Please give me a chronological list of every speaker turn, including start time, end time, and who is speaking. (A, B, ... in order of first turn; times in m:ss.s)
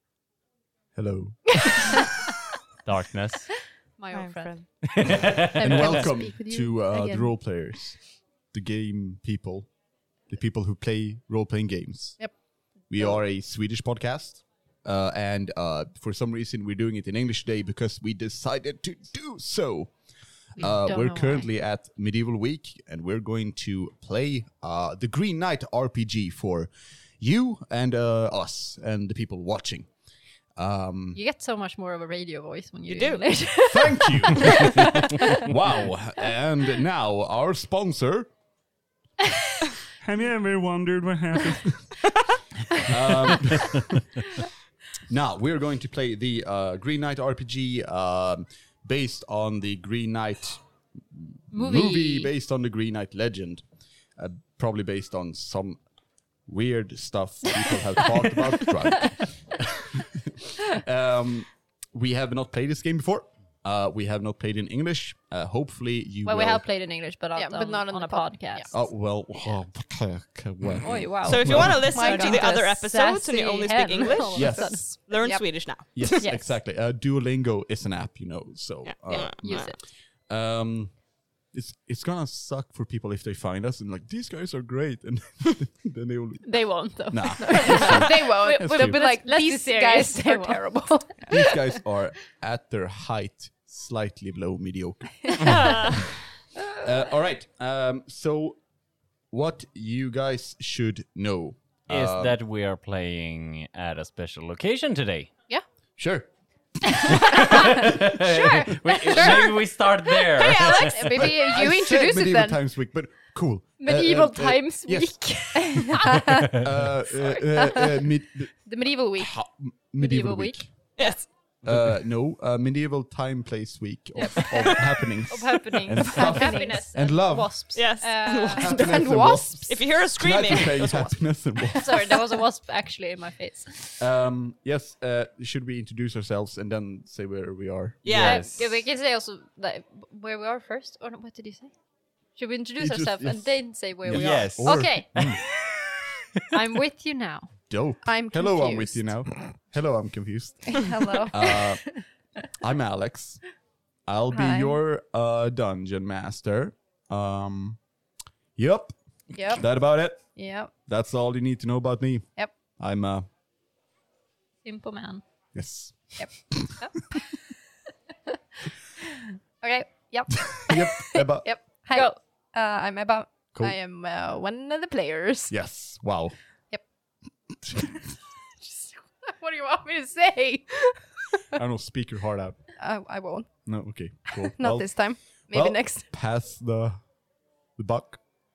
0:01.0-0:02.0 A
0:02.8-0:03.5 B
0:04.0-0:05.2 C
0:04.1-0:05.2 D
0:04.8-0:05.9 B
0:05.4-0:07.4 E
0:05.6-0:08.0 A
0:08.5-0:09.7 A
0:10.3-0:12.3 A
0:12.9-0:19.9 A
0:20.6-0:29.9 A
0:20.6-0:21.5 C
0:30.6-0:31.2 A
0:31.1-0:35.4 C
0:32.9-0:33.2 D
0:33.7-0:38.3 A
0:40.0-0:41.9 A
0:42.9-0:44.0 A
0:45.1-0:50.6 A
0:51.2-0:53.6 A
0:51.5-0:52.3 C
0:54.2-0:55.8 A
0:56.5-1:06.6 A
1:06.2-1:08.8 C
1:07.4-1:08.7 E
1:08.7-1:11.9 A
1:10.8-1:15.0 C
1:11.2-1:16.2 D
1:11.9-1:12.7 E
1:14.0-1:15.5 E
1:14.3-1:14.8 A
1:15.9-1:19.7 A
1:16.2-1:16.6 C
1:18.8-1:19.7 D
1:19.4-1:19.8 C
1:20.3-1:21.0 A
1:21.5-1:26.4 A
1:26.4-1:30.6 C
1:27.1-1:29.0 A
1:27.5-1:31.4 E
1:31.3-1:35.7 A
1:35.4-1:36.1 D
1:36.8-1:38.6 A
1:39.3-1:42.4 A
1:41.9-1:45.3 B
1:46.0-1:46.3 A
1:46.9-1:47.4 A
1:47.1-1:47.7 E
1:47.1-1:51.3 B
1:48.3-1:49.6 E
1:50.3-1:52.6 E
1:51.1-1:55.2 A
1:53.8-1:56.3 C
1:55.6-1:56.6 E
1:55.7-1:58.5 A
1:58.6-1:59.3 E
1:59.2-2:00.7 A
2:00.0-2:01.1 C
2:01.0-2:01.3 D
2:01.6-2:07.7 A
2:04.2-2:08.7 C
2:06.1-2:06.8 E
2:07.8-2:08.9 D
2:08.6-2:12.0 A
2:08.7-2:09.6 E
2:09.7-2:11.2 D
2:11.8-2:14.0 C
2:14.0-2:18.2 A
2:18.0-2:18.8 D
2:18.1-2:18.6 B
2:18.2-2:21.7 C
2:22.4-2:25.3 C
2:22.8-2:25.4 A
2:24.1-2:25.5 B
2:26.5-2:27.5 C
2:27.7-2:31.9 A
2:28.0-2:29.2 E
2:30.7-2:31.8 E
2:32.6-2:33.4 A
2:34.1-2:37.8 A
2:34.3-2:34.8 E
2:38.6-2:38.9 A
2:39.4-2:39.7 E
2:39.5-2:40.3 A
2:40.3-2:40.7 E
2:40.9-2:43.3 A
2:44.6-2:45.2 C
2:45.5-2:46.5 A
2:49.6-2:55.6 E
2:50.6-2:51.6 A
2:51.9-2:52.2 C
2:55.5-2:56.3 A
2:58.6-3:01.6 E
3:01.5-3:02.6 A
3:02.8-3:03.5 E
3:03.7-3:07.0 A
3:04.3-3:06.1 E
3:07.8-3:08.2 A